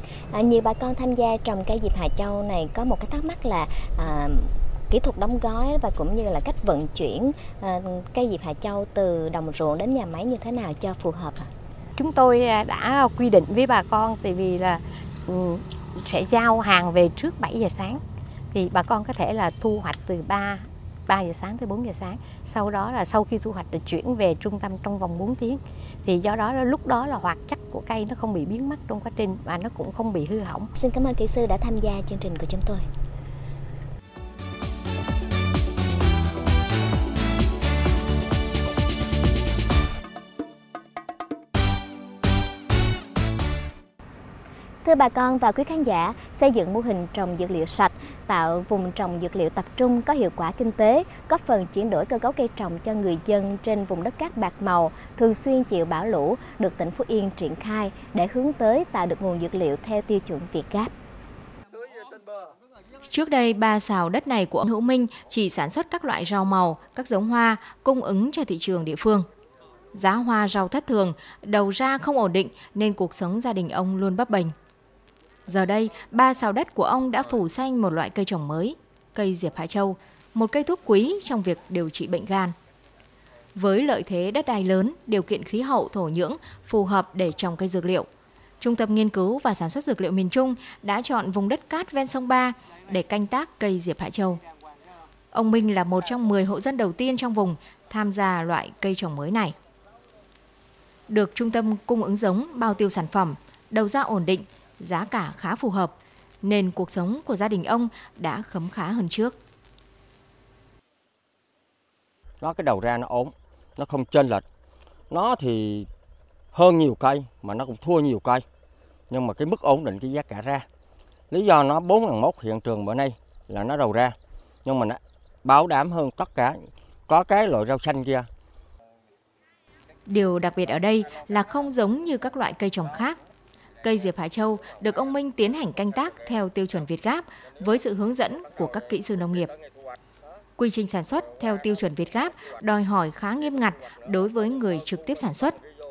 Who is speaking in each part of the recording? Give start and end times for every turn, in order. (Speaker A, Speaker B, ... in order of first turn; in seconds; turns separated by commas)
Speaker A: 0.3-11.5, Speaker B: 12.0-18.0, Speaker B: 18.5-30.7, Speaker A: 30.8-32.9, Speaker A: 44.8-60.9, Speaker C: 63.1-69.3, Speaker C: 69.9-74.5, Speaker C: 75.5-82.5, Speaker C: 83.5-88.1, Speaker C: 88.6-94.4, Speaker C: 95.3-99.5, Speaker C: 101.1-109.4, Speaker D: 112.4-114.5, Speaker D: 115.1-115.9, Speaker D: 116.5-118.5, Speaker D: 119.1-120.7, Speaker D: 121.3-128.3, Speaker C: 130.1-133.2, Speaker C: 133.8-139.5, Speaker C: 140.6-145.6